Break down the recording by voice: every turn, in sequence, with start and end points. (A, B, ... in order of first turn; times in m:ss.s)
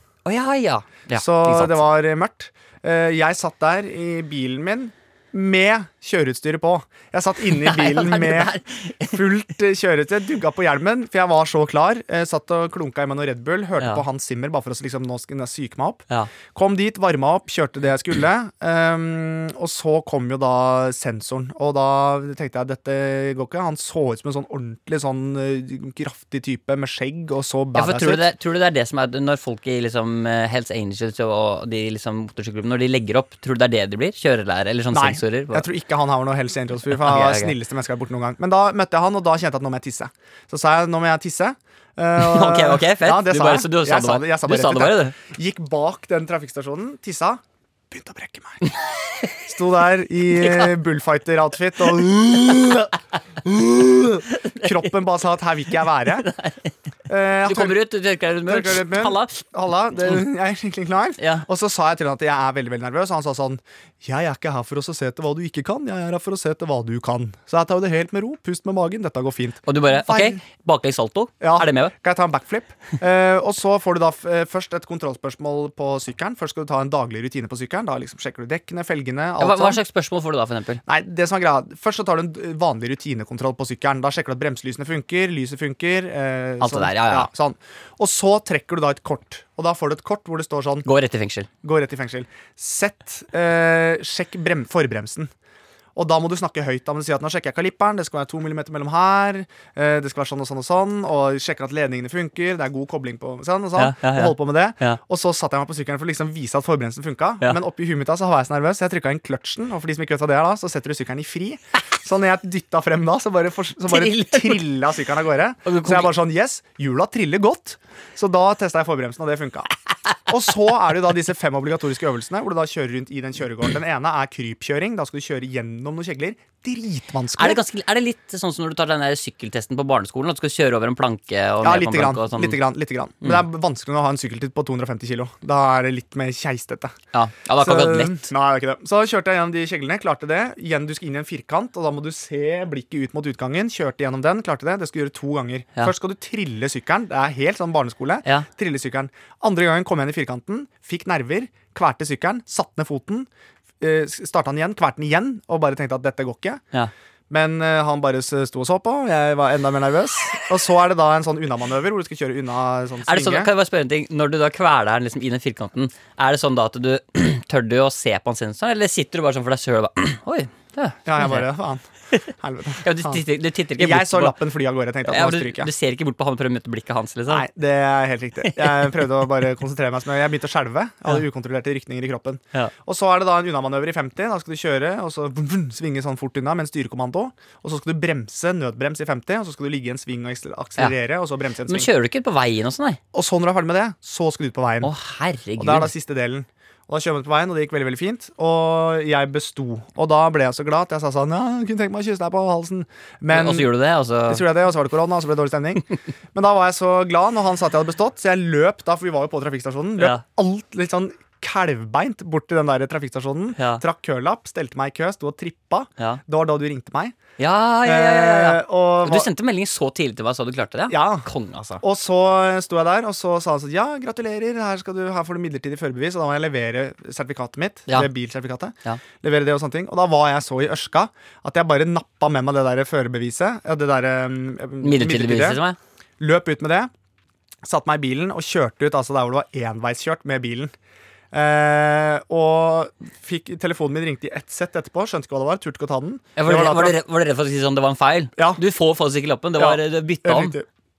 0:00.2-0:01.8 A
0:01.2-0:08.6 B
0:07.5-0:09.2 A
0:09.1-0:28.3 B
0:27.8-0:35.7 A
0:34.9-0:48.6 B
0:36.9-0:37.5 A
0:42.2-0:45.2 A
0:48.7-0:49.3 A
0:49.5-0:56.3 B
0:50.3-0:50.8 A
0:54.3-0:54.9 A
0:56.1-0:56.7 A
0:57.1-0:57.8 B
0:57.4-0:59.4 A
0:58.4-1:10.4 B
1:01.2-1:01.4 A
1:09.7-1:11.9 A
1:11.4-1:19.8 B
1:19.4-1:20.8 A
1:20.8-1:30.9 B
1:26.6-1:27.3 A
1:30.8-1:31.5 A
1:31.6-1:35.3 B
1:36.0-1:59.7 B
1:43.8-1:45.0 A
1:53.9-1:54.6 A
1:55.6-1:56.1 A
2:00.3-2:07.6 B
2:07.4-2:12.6 A
2:11.6-2:17.0 B
2:17.1-2:18.3 A
2:17.6-2:33.3 B
2:33.8-2:36.6 B
2:37.3-2:43.5 B
2:43.0-2:51.5 A
2:51.1-2:53.2 B
2:52.8-2:54.4 A
2:53.8-2:55.7 B
2:55.1-2:57.5 A
2:57.3-3:11.9 B
2:58.4-2:58.9 A
3:11.7-3:13.0 A
3:13.1-3:14.9 B
3:14.8-3:15.9 A
3:15.6-3:23.7 B
3:23.3-3:24.5 A
3:24.3-3:37.2 B
3:30.0-3:30.2 A
3:33.6-3:33.8 A
3:37.4-3:41.8 A
3:37.8-3:39.3 B
3:40.9-3:41.3 B
3:41.8-3:55.6 B
3:54.8-3:55.8 A
3:56.2-3:56.9 B
3:57.6-4:00.7 B
4:01.3-4:07.0 B
4:06.4-4:10.6 A
4:09.6-4:10.7 B